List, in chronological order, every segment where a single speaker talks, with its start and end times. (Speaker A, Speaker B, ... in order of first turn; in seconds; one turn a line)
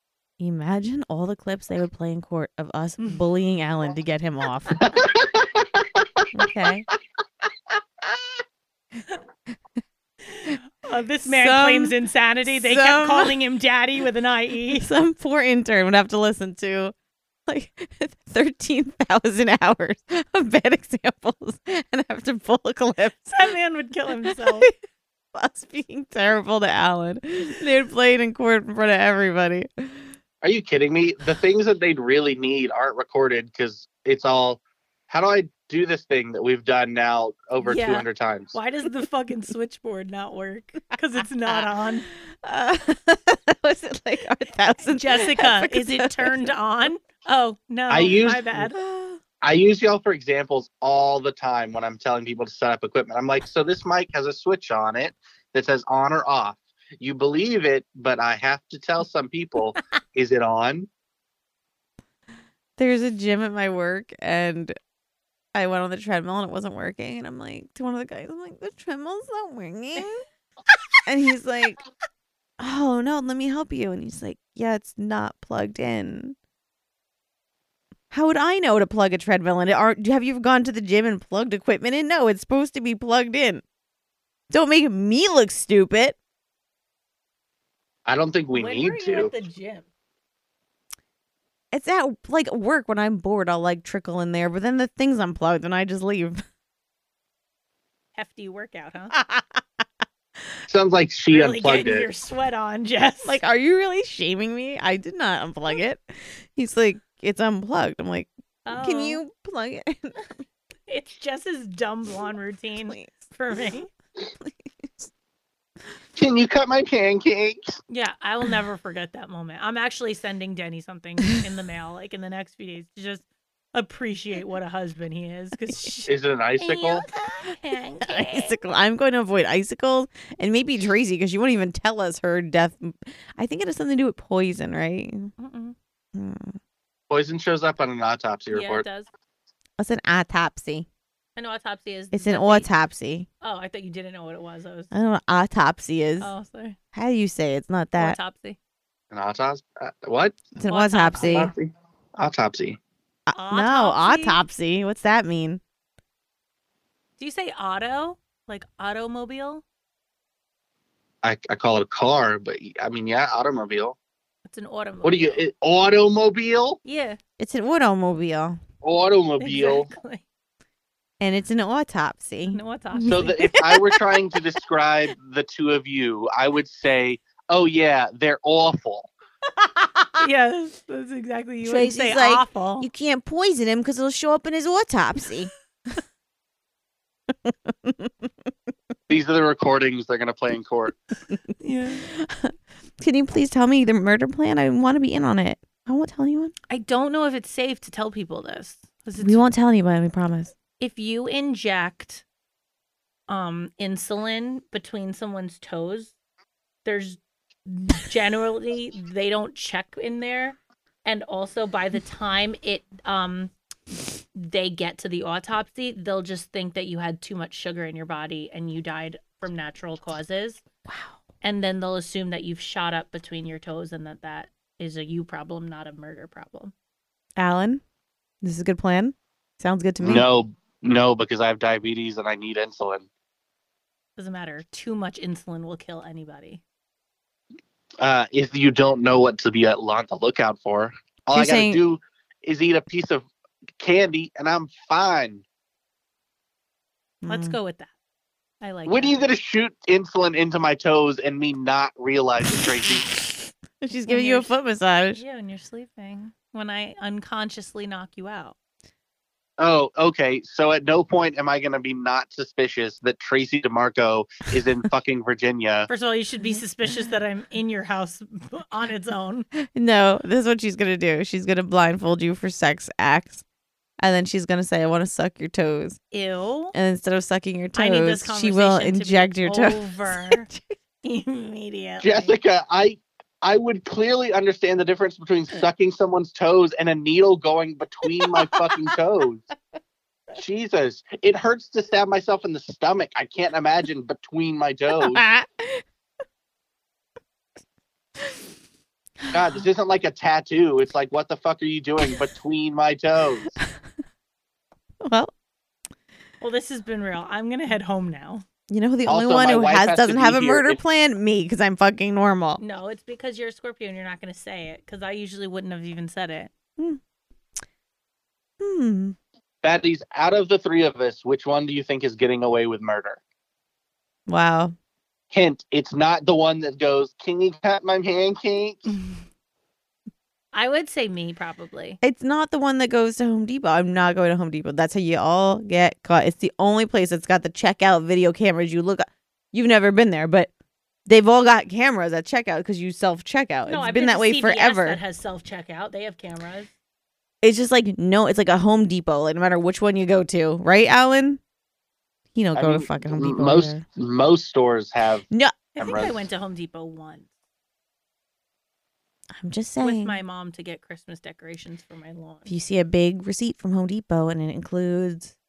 Speaker A: 0.4-4.9
Speaker B: 4.8-6.2
Speaker A: 6.3-6.8
Speaker C: 10.3-14.9
Speaker A: 11.2-13.3
Speaker A: 14.7-16.9
Speaker A: 17.5-23.5
Speaker C: 23.2-24.7
Speaker A: 24.2-24.7
Speaker A: 25.3-30.1
Speaker B: 30.4-38.5
Speaker C: 37.6-42.1
Speaker A: 42.3-46.5
Speaker C: 44.8-48.8
Speaker B: 47.9-48.5
Speaker A: 48.7-49.2
Speaker B: 49.4-60.9
Speaker A: 62.8-64.7
Speaker A: 65.5-70.2
Speaker A: 71.1-71.8
Speaker A: 72.6-76.3
Speaker A: 78.1-83.6
Speaker A: 84.5-86.2
Speaker B: 88.0-89.3
Speaker C: 88.5-89.9
Speaker A: 91.7-96.4
Speaker C: 98.1-99.1
Speaker A: 99.1-99.6
Speaker B: 100.7-102.1
Speaker C: 101.3-103.4
Speaker A: 103.2-110.2
Speaker C: 108.7-109.2
Speaker C: 110.9-113.9
Speaker A: 112.8-113.3
Speaker A: 114.4-115.1
Speaker B: 116.2-117.7
Speaker C: 117.9-128.6
Speaker B: 126.1-127.1
Speaker A: 128.1-135.3
Speaker C: 135.4-135.7
Speaker A: 136.1-136.6
Speaker B: 137.1-138.8
Speaker C: 138.5-139.1
Speaker A: 139.8-140.9
Speaker C: 141.3-142.7
Speaker A: 142.1-143.3
Speaker C: 143.4-144.9
Speaker A: 144.9-146.3
Speaker C: 146.2-146.8
Speaker A: 146.9-148.2
Speaker C: 148.0-148.6
Speaker B: 149.1-150.4
Speaker A: 150.6-151.5
Speaker C: 150.6-151.5
Speaker B: 151.2-152.8
Speaker A: 153.3-155.6
Speaker C: 153.3-154.4
Speaker C: 157.2-159.6
Speaker B: 161.2-164.0
Speaker C: 164.4-165.4
Speaker B: 165.0-166.8
Speaker C: 166.8-167.2
Speaker A: 167.4-168.6
Speaker B: 168.8-169.9
Speaker C: 169.4-170.2
Speaker A: 171.2-174.0
Speaker C: 172.5-173.3
Speaker B: 173.1-179.1
Speaker C: 179.8-182.9
Speaker A: 181.6-185.5
Speaker A: 187.4-188.1
Speaker B: 189.1-190.9
Speaker C: 191.6-192.1
Speaker A: 191.9-196.5
Speaker C: 196.7-199.4
Speaker A: 199.2-200.5
Speaker C: 200.8-202.2
Speaker C: 203.3-206.1
Speaker C: 206.8-213.5
Speaker C: 214.3-220.6
Speaker A: 220.8-221.2
Speaker C: 221.4-226.7
Speaker A: 227.4-227.8
Speaker A: 228.4-230.2
Speaker B: 230.0-233.1
Speaker C: 234.2-236.6
Speaker B: 238.0-243.3
Speaker A: 241.3-241.8
Speaker B: 243.8-245.4
Speaker A: 247.2-247.6
Speaker C: 247.2-247.9
Speaker C: 248.6-249.2
Speaker B: 248.8-253.1
Speaker A: 253.8-255.2
Speaker C: 254.0-254.5
Speaker C: 255.1-258.6
Speaker B: 259.6-265.9
Speaker C: 265.9-269.5
Speaker A: 269.8-273.4
Speaker A: 274.0-276.0
Speaker C: 276.1-276.7
Speaker A: 276.7-280.6
Speaker C: 277.7-280.5
Speaker C: 281.0-282.3
Speaker B: 282.0-289.5
Speaker A: 288.1-288.7
Speaker B: 290.3-295.2
Speaker A: 294.9-295.8
Speaker A: 298.2-298.4
Speaker B: 299.3-303.6
Speaker A: 305.0-305.3
Speaker C: 306.4-308.4
Speaker A: 308.7-312.6
Speaker B: 309.1-310.8
Speaker C: 312.6-316.5
Speaker A: 318.6-319.1
Speaker B: 319.6-323.2
Speaker A: 324.3-324.7
Speaker B: 325.3-328.9
Speaker C: 330.5-332.0
Speaker A: 332.0-340.5
Speaker A: 341.1-345.0
Speaker C: 343.6-346.7
Speaker A: 347.4-351.4
Speaker A: 352.3-353.8
Speaker B: 352.5-355.2
Speaker A: 355.3-356.1
Speaker C: 355.8-357.3
Speaker B: 355.8-356.2
Speaker A: 359.4-360.2
Speaker C: 359.8-362.5
Speaker A: 362.4-365.3